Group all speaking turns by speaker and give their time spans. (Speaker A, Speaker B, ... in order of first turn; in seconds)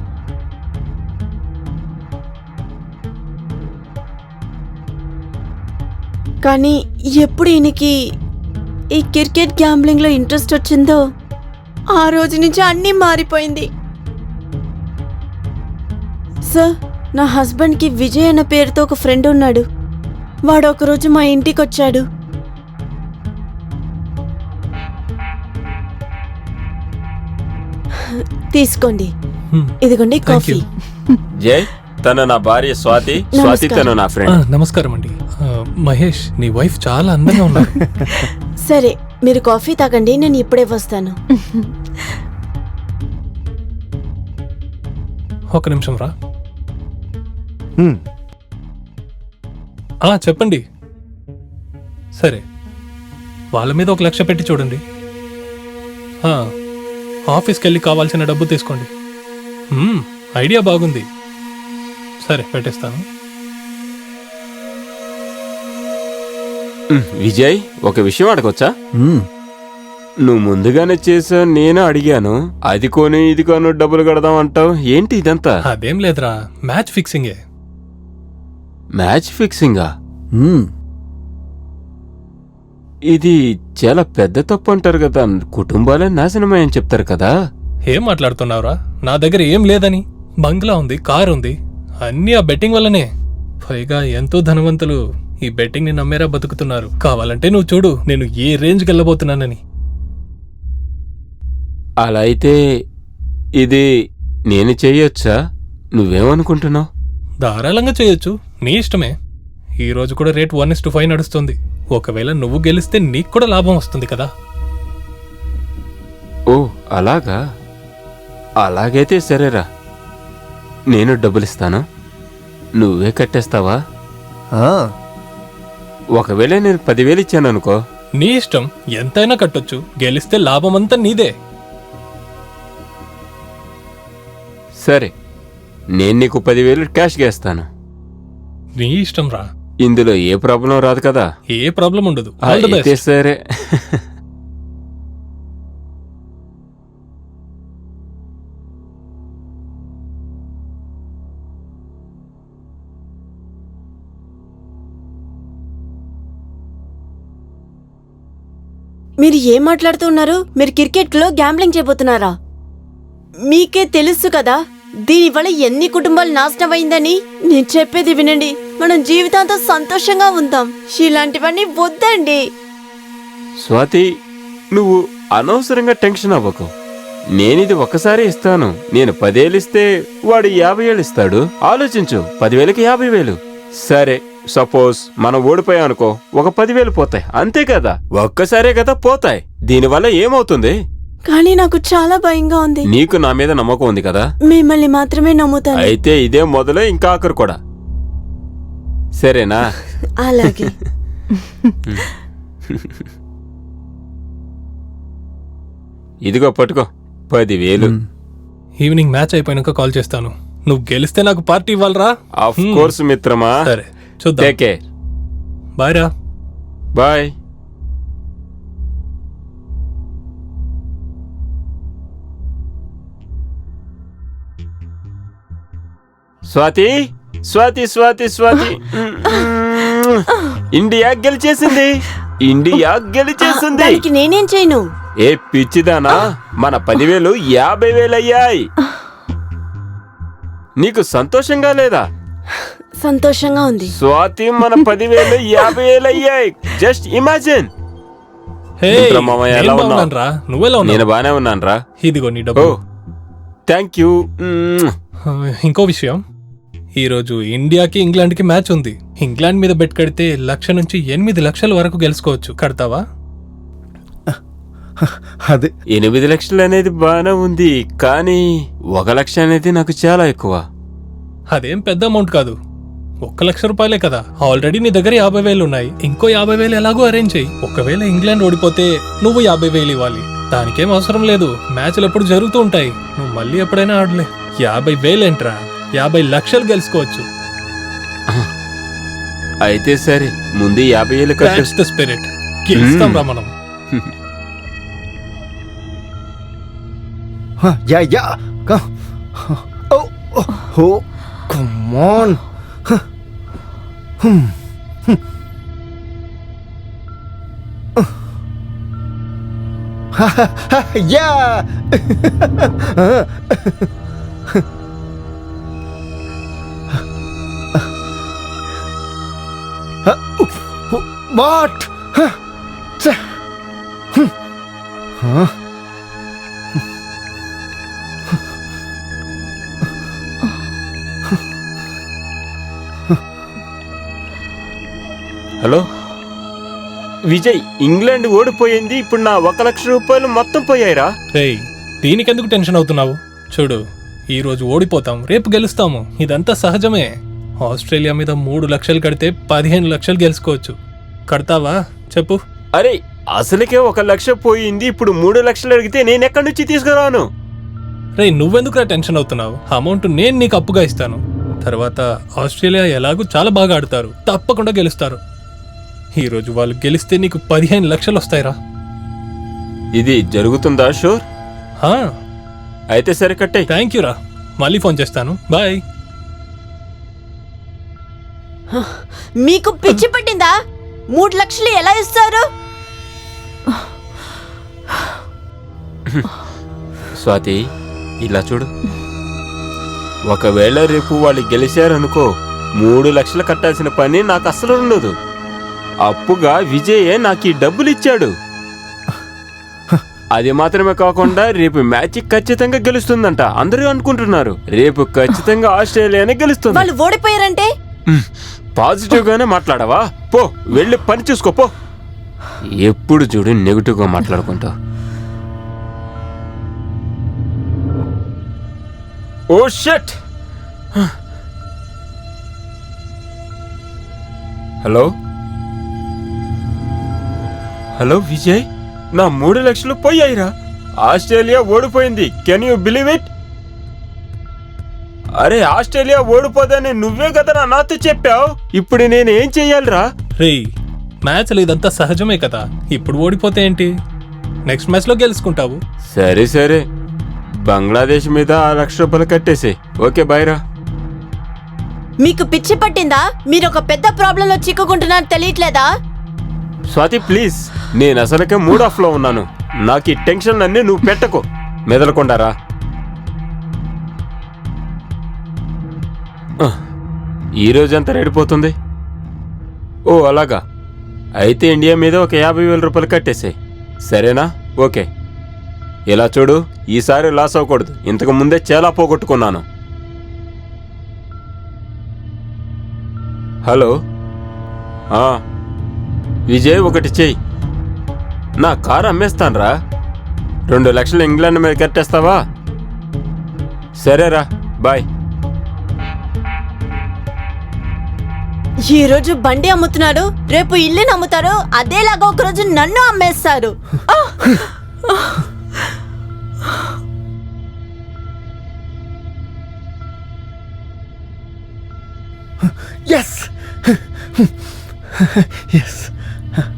Speaker A: 6.4-7.9, 9.0-11.0, 11.9-13.7, 16.5-19.6, 20.5-22.0, 28.2-29.1, 29.8-30.6, 33.4-33.9, 38.6-41.6, 159.2-162.3, 163.5-172.4, 191.3-192.9, 194.5-195.9, 200.2-200.8, 233.4-234.9, 243.0-243.9, 378.7-380.5, 381.1-382.4, 406.7-407.7, 452.2-455.9, 498.8-504.6
Speaker B: 29.5-30.6, 34.3-35.1, 35.8-37.8, 45.5-46.1, 50.1-50.6, 52.2-52.4, 53.5-54.8, 57.3-58.9, 59.7-61.1, 62.2-63.0, 75.7-77.4, 87.9-93.1, 93.6-99.6, 107.4-109.1, 109.8-114.3, 128.2-131.3, 138.8-139.5, 141.6-143.0, 208.8-212.9, 213.7-214.6, 215.8-216.1, 248.8-251.0, 252.0-252.8, 255.3-256.2, 257.0-263.0, 271.5-272.6, 273.2-287.2, 291.4-293.5, 341.4-343.8, 344.3-347.1, 347.6-350.8, 351.3-352.4, 358.2-365.2, 366.2-368.6, 373.7-375.8, 440.4-440.7, 441.2-443.9, 444.7-445.8
Speaker C: 31.4-34.4, 67.0-68.7, 70.3-75.5, 79.0-79.9, 83.1-87.3, 102.0-102.6, 103.6-103.9, 104.5-105.3, 106.0-106.9, 116.5-117.4, 118.6-119.6, 120.9-121.8, 122.8-123.8, 126.2-127.8, 134.8-135.1, 136.0-137.7, 139.8-141.3, 142.4-144.0, 173.7-174.1, 174.8-176.7, 177.4-190.8, 192.9-194.3, 195.8-197.6, 199.2-199.7, 202.7-203.0, 206.3-207.9, 212.4-213.5, 214.4-214.8, 217.0-217.3, 226.5-226.9, 227.5-234.0, 235.2-238.7, 240.8-242.0, 244.0-247.7, 248.9-250.1, 250.8-251.8, 253.7-254.9, 265.9-270.6, 289.7-291.7, 292.8-293.2, 337.3-341.1, 352.8-357.2, 370.0-371.2, 372.9-373.7, 386.1-386.4, 387.2-387.6, 388.2-388.7, 390.3-392.3, 392.8-395.1, 396.1-398.3, 400.4-406.9, 408.1-411.7, 412.8-414.7, 419.5-420.2, 424.8-425.1, 428.0-430.5, 431.0-433.3, 435.4-440.1, 446.1-446.8, 447.7-450.6, 456.9-462.5, 467.6-468.8, 470.1-470.6, 471.4-473.6, 474.1-475.1, 476.1-479.6, 483.7-483.9, 485.1-485.4, 486.5-487.4, 488.6-489.7, 490.7-492.4, 494.0-495.1
Speaker D: 80.4-80.7, 124.6-124.9, 265.5-265.7, 297.6-303.0, 304.2-304.6, 310.2-313.9, 320.1-322.4, 325.2-325.5, 513.0-514.5, 515.2-516.1